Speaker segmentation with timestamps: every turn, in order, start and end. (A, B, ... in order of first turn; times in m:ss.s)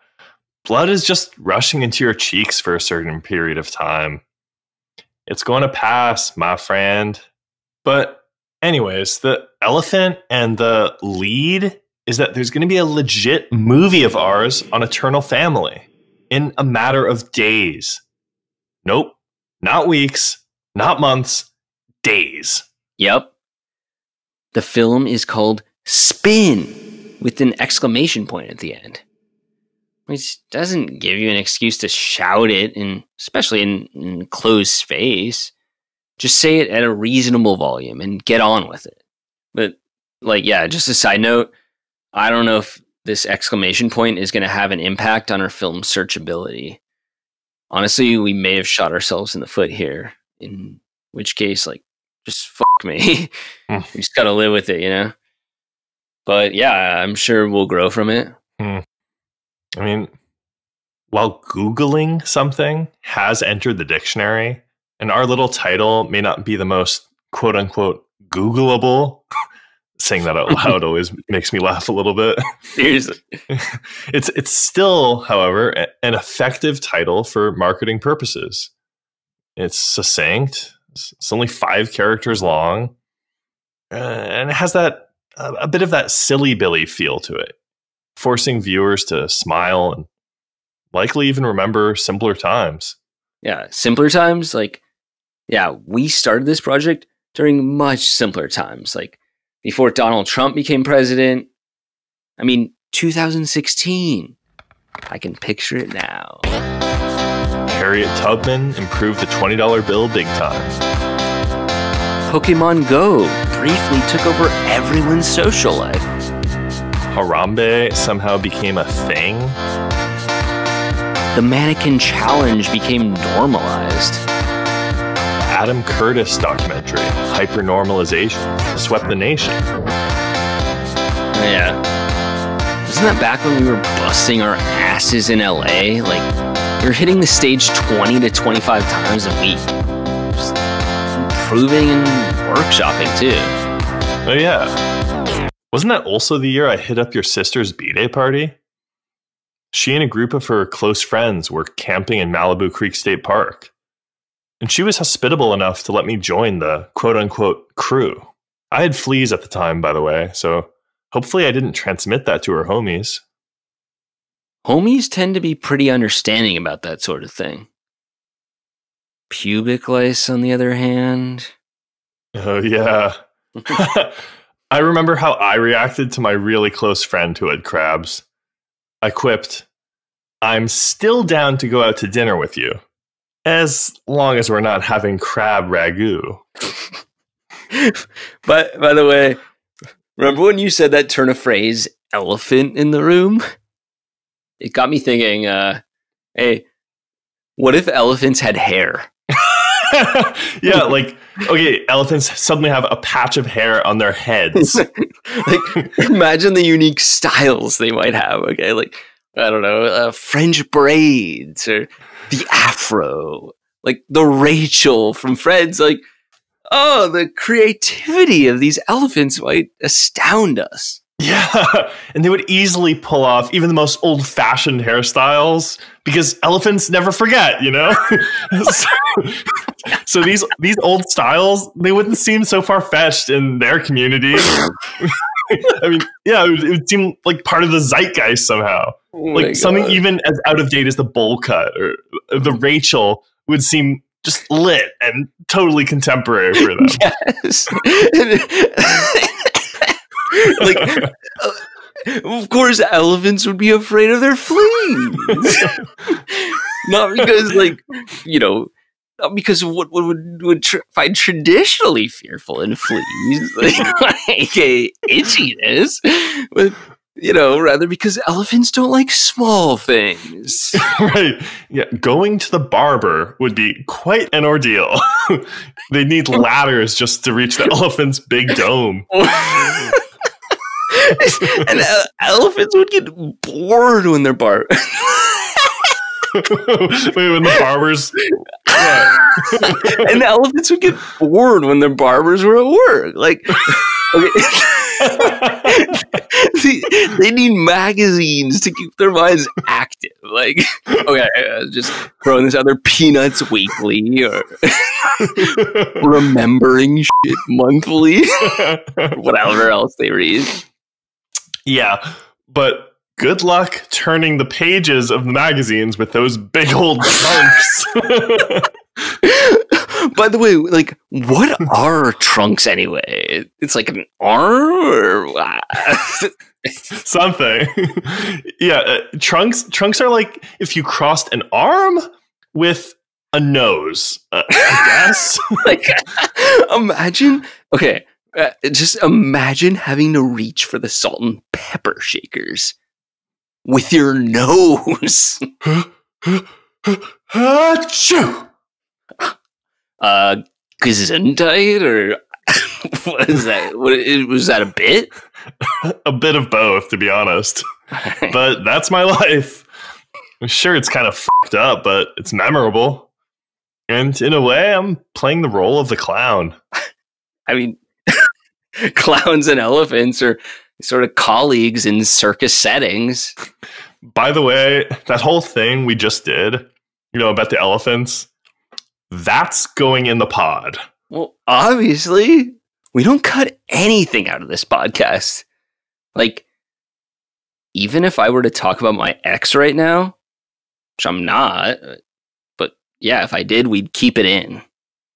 0:00.6-0:04.2 A
0:05.3-0:07.2 A
0:07.8-0:18.0 A
0:18.8-0:21.5 A
0:22.0-0:22.6 A
0:23.0-0:23.3 B
0:24.5-0:29.0 B
0:30.1-0:35.5 B
0:36.2-0:39.0 B
0:39.5-0:41.5 B
0:42.1-0:46.8 B
0:47.7-0:53.3 B
0:53.9-0:55.1 B
0:56.2-0:58.4 B
0:58.6-0:58.8 A
0:59.8-1:00.1 A
1:01.1-1:09.2 A
1:10.0-1:12.4 A
1:12.8-1:13.4 B
1:13.5-1:18.7 A
1:19.6-1:22.9 A
1:23.9-1:27.5 A
1:28.2-1:30.1 A
1:30.9-1:33.0 A
1:33.4-1:34.8 B
1:35.5-1:41.5 B
1:42.4-1:44.4 B
1:45.1-1:46.5 B
1:47.6-1:50.8 A
1:52.3-1:56.1 B
1:57.1-1:59.6 A
2:01.3-2:04.2 B
2:05.5-2:09.7 A
2:11.3-2:11.8 B
2:12.8-2:16.3 B
2:16.8-2:19.8 B
2:21.1-2:23.6 B
2:24.2-2:24.8 A
2:25.7-2:28.6 A
2:29.7-2:33.7 A
2:34.6-2:43.2 A
2:44.6-2:47.7 B
2:49.3-2:51.5 B
2:52.3-2:53.2 A
2:53.7-2:58.2 A
2:59.0-2:59.7 A
3:00.4-3:02.8 A
3:03.4-3:06.4 A
3:07.7-3:09.4 B
3:10.2-3:13.4 B
3:14.6-3:15.8 B
3:16.4-3:16.6 B
3:17.6-3:19.1 B
3:19.3-3:24.8 A
3:24.6-3:36.0 B
3:36.7-3:41.0 B
3:41.2-4:07.0 A
3:59.2-4:00.0 B
4:06.6-4:30.8 B
4:10.6-4:11.1 A
4:15.3-4:15.7 A
4:30.8-4:39.1 A
4:39.1-4:40.0 B
4:40.9-4:45.9 B
4:41.2-4:41.7 A
4:46.3-4:48.2 A
4:48.7-5:10.6 B
4:48.7-4:50.1 A
4:55.0-4:56.0 A
5:05.3-5:06.0 A
5:08.4-5:09.2 A
5:11.6-5:18.7 A
5:19.2-5:26.7 B
5:26.9-5:35.6 A
5:35.6-5:42.7 B
5:43.6-5:45.5 B
5:45.6-5:48.5 A
5:50.0-5:55.1 B
5:55.6-5:57.6 A
5:58.0-5:58.3 B
5:58.3-5:59.7 A
6:00.4-6:03.1 A
6:03.9-6:06.6 A
6:07.5-6:08.3 B
6:08.8-6:13.3 B
6:14.0-6:18.3 A
6:19.1-6:20.8 A
6:21.1-6:25.4 B
6:26.1-6:26.4 B
6:27.7-6:30.2 B
6:31.0-6:32.0 B
6:32.6-6:34.6 B